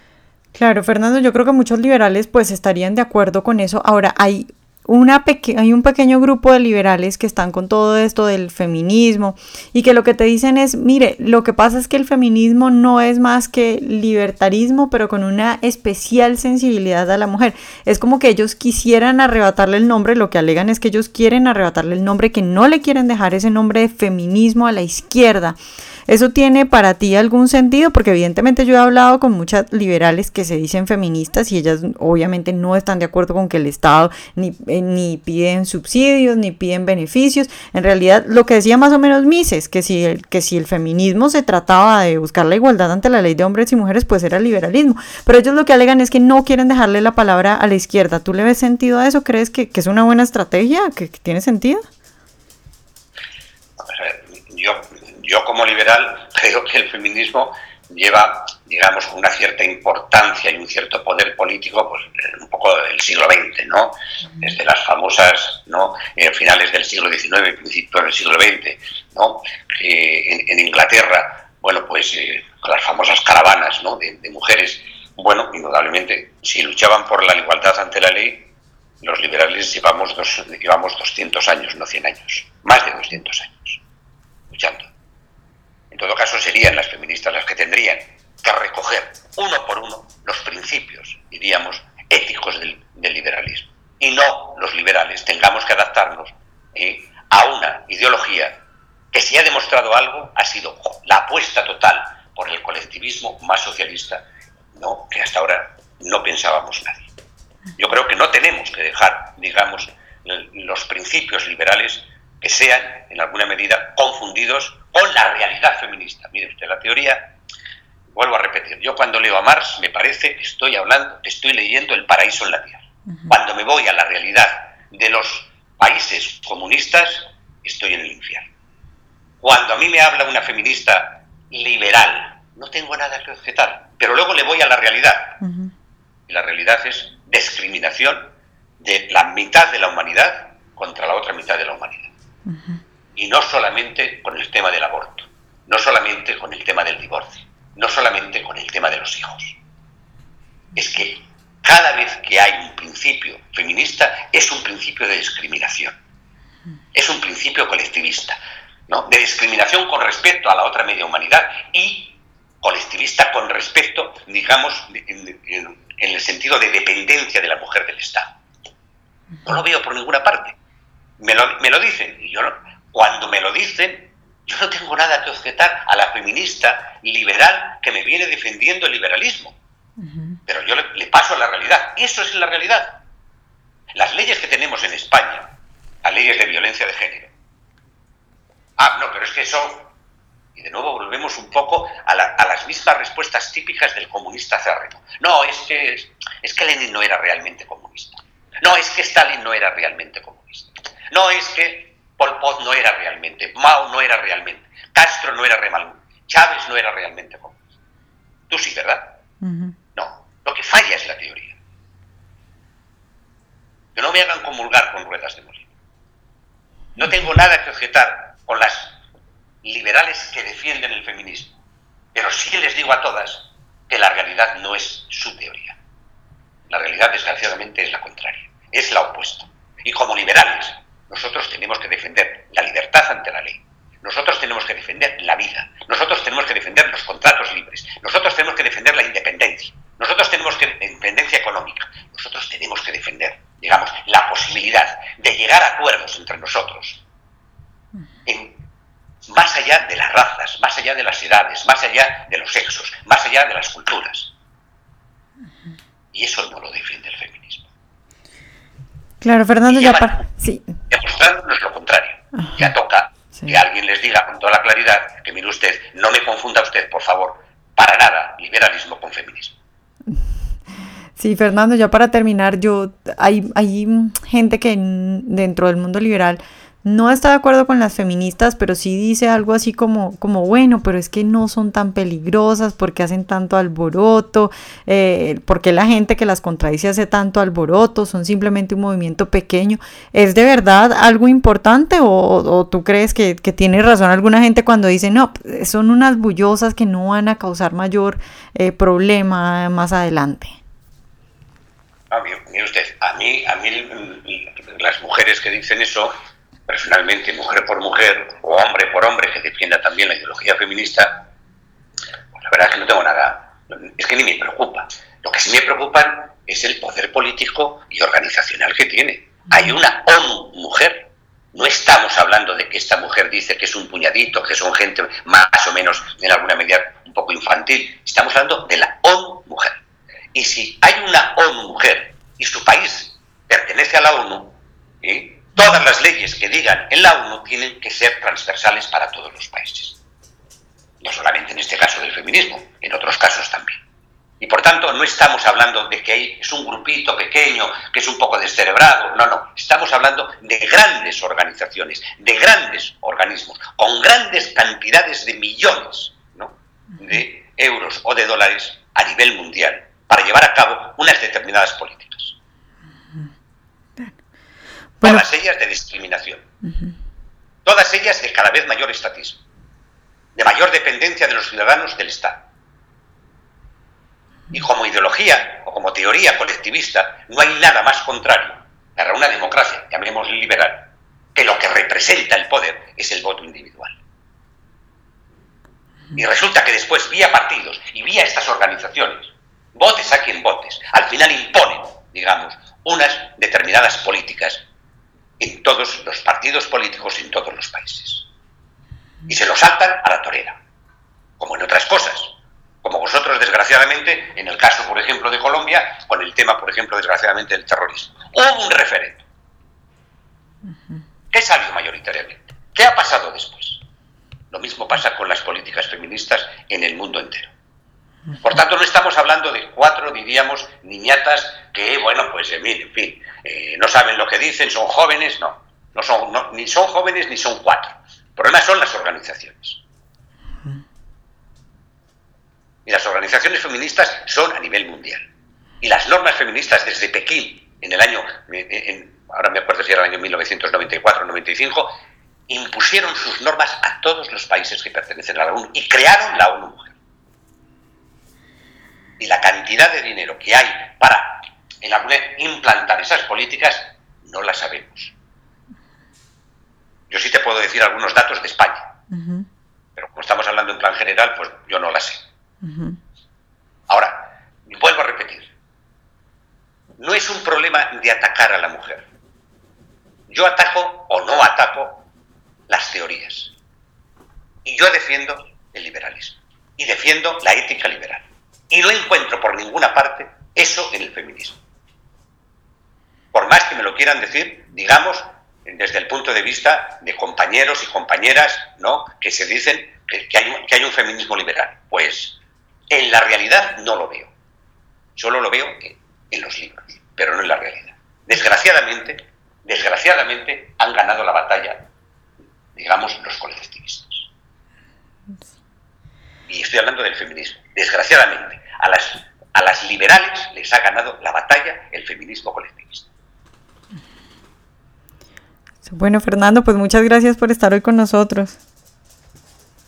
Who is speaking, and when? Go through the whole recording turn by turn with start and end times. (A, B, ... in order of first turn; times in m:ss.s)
0:00.5-0:51.9 A
0:53.8-1:23.8 B
1:24.5-1:24.9 B
1:25.9-1:38.6 B
1:39.1-1:47.1 B
1:47.8-1:57.3 B
1:58.1-2:08.5 B
2:09.4-2:15.4 B
2:15.4-2:15.7 A
2:16.3-2:22.1 B
2:22.5-2:22.8 A
2:23.2-2:29.6 B
2:30.7-2:36.0 B
2:36.9-2:48.4 B
2:49.4-2:50.6 B
2:51.2-2:59.6 B
3:00.5-3:03.0 B
3:03.9-3:05.5 B
3:06.0-3:07.3 B
3:08.8-3:09.9 B
3:10.5-3:27.6 B
3:28.5-3:29.2 B
3:29.4-3:29.7 A
3:29.9-3:31.6 B
3:33.9-3:35.7 B
3:37.0-3:39.0 B
3:39.6-3:41.5 B
3:42.1-3:45.8 B
3:46.7-4:07.0 B
4:08.2-4:08.6 B
4:09.3-4:14.3 B
4:16.1-4:17.7 B
4:19.2-4:20.7 A
4:19.7-4:20.2 B
4:20.9-4:29.6 B
4:22.4-4:22.6 A
4:31.2-5:00.6 A
5:02.1-5:06.1 B
5:06.7-5:11.3 B
5:12.4-5:40.0 B
5:41.0-5:43.8 B
5:44.4-6:02.4 B
6:05.0-6:05.2 A
6:05.0-6:06.4 B
6:07.6-6:09.4 B
6:10.4-6:12.4 B
6:14.5-6:24.0 B
6:26.1-6:34.6 B
6:35.4-6:38.3 B
6:39.3-6:40.6 B
6:41.4-6:49.2 B
6:51.3-6:53.8 B
6:54.5-6:57.5 B
6:58.4-7:09.8 B
7:12.8-7:15.2 B
7:15.8-7:21.9 B
7:22.5-7:26.9 B
7:29.2-7:35.1 B
7:37.1-7:38.9 B
7:39.1-7:39.5 A
7:40.0-7:42.2 B
7:42.6-7:43.0 A
7:43.9-7:45.5 B
7:47.0-7:49.0 B
7:50.3-7:52.0 B
7:52.7-7:53.5 B
7:54.6-8:01.6 B
8:03.3-8:12.4 B
8:12.9-8:14.3 B
8:15.2-8:21.9 B
8:22.7-8:24.3 B
8:26.5-8:33.1 B
8:35.8-8:38.6 A